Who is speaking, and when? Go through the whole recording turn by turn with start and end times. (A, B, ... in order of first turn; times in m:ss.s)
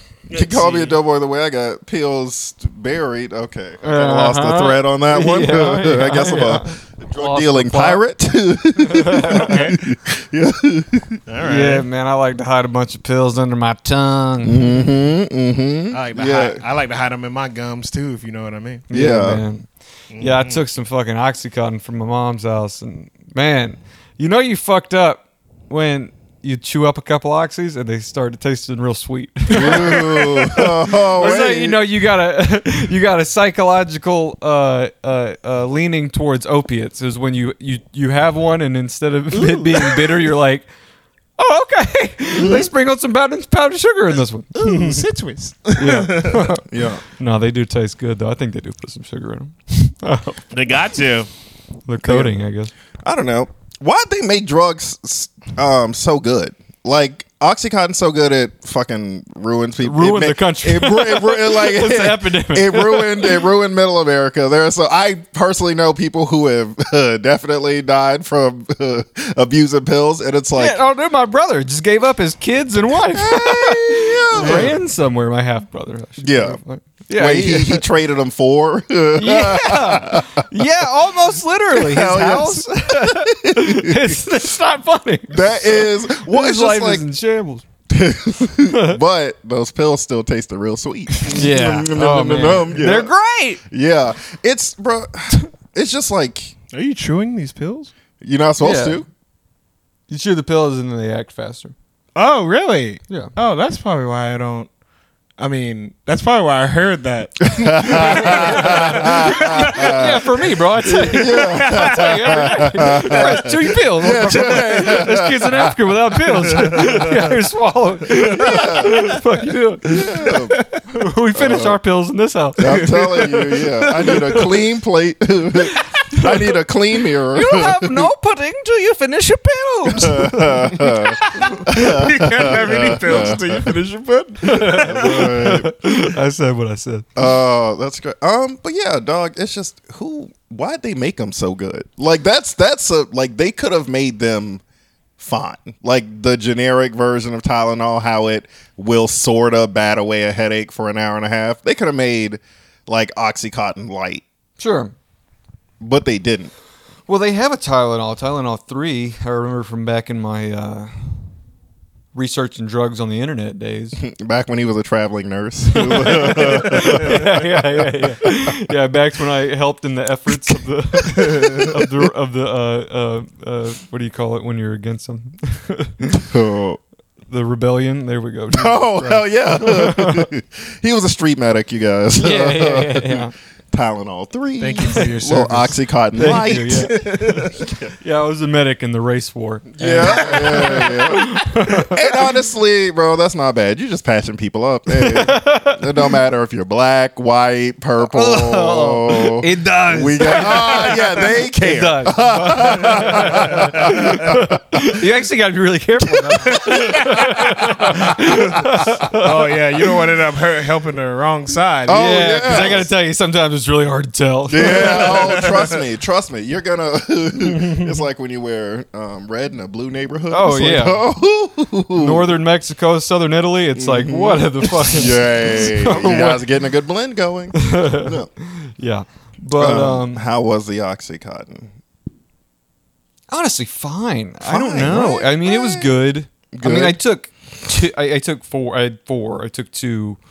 0:00.3-0:11.2 A
0:00.3-0:01.0 B
0:03.8-0:08.0 C
0:08.8-0:09.6 C
0:09.3-0:09.8 B
0:11.3-0:11.8 B
0:11.4-0:14.7 C
0:14.4-0:16.6 A
0:15.9-0:18.8 B
0:18.9-0:19.4 A
0:18.9-0:19.7 C
0:20.1-0:20.6 B
0:20.2-0:40.7 C
0:29.5-0:31.8 A
0:29.5-0:31.5 B
0:39.3-0:40.2 B
0:41.4-0:45.0 C
0:44.5-0:46.6 B
0:45.8-0:50.4 C
0:46.6-0:47.0 A
0:50.5-0:51.3 B
0:51.9-0:52.7 C
0:52.0-0:52.4 A
0:53.0-1:10.8 A
0:59.8-1:03.4 C
1:10.6-1:17.8 C
1:13.0-1:14.8 A
1:14.4-1:14.7 B
1:16.2-1:16.6 A
1:17.2-1:20.4 A
1:19.2-1:27.6 C
1:21.7-1:24.2 A
1:25.3-1:27.0 A
1:27.9-1:33.1 A
1:28.7-1:29.0 C
1:31.2-1:33.6 C
1:33.7-1:36.5 A
1:36.7-1:37.9 B
1:38.2-1:39.1 A
1:38.6-1:39.0 C
1:40.1-1:41.7 C
1:42.2-1:44.7 B
1:45.4-1:50.1 B
1:47.4-1:50.2 A
1:47.9-2:00.0 C
1:50.8-1:55.8 A
1:51.1-1:52.4 B
1:54.3-1:54.6 B
1:56.5-1:57.2 B
1:56.6-1:57.0 A
1:58.2-1:59.0 B
1:58.3-1:59.1 A
1:59.9-2:00.6 A
2:00.0-2:00.8 B
2:00.9-2:03.1 C
2:01.3-2:01.8 A
2:02.6-2:08.1 A
2:02.6-2:04.6 B
2:07.3-2:11.6 C
2:09.9-2:13.7 A
2:11.2-2:15.2 B
2:14.4-2:17.1 C
2:14.6-2:15.7 A
2:17.2-2:24.6 A
2:25.2-2:34.2 A
2:34.6-2:34.9 C
2:35.8-2:36.5 A
2:37.1-2:40.9 C
2:42.1-2:44.0 C
2:44.0-2:47.3 A
2:45.7-2:56.2 C
2:51.0-2:52.1 A
2:56.1-2:56.8 A
2:57.3-3:00.3 C
2:58.5-3:07.9 A
3:02.2-3:03.3 C
3:04.6-3:05.8 B
3:06.2-3:12.2 C
3:06.7-3:07.6 B
3:09.8-3:25.0 A
3:14.9-3:16.0 C
3:18.0-3:30.0 C
3:26.2-3:27.3 B
3:26.3-3:27.9 A
3:29.2-3:32.7 B
3:31.9-3:32.9 A
3:31.9-3:35.7 C
3:34.5-3:42.3 A
3:34.6-3:35.8 B
3:37.6-3:37.8 C
3:40.3-3:41.0 C
3:42.0-3:46.4 C
3:43.8-3:48.3 A
3:47.5-3:50.2 C
3:49.6-3:51.7 A
3:53.3-4:00.2 C
3:54.4-3:56.0 A
3:56.5-3:57.0 A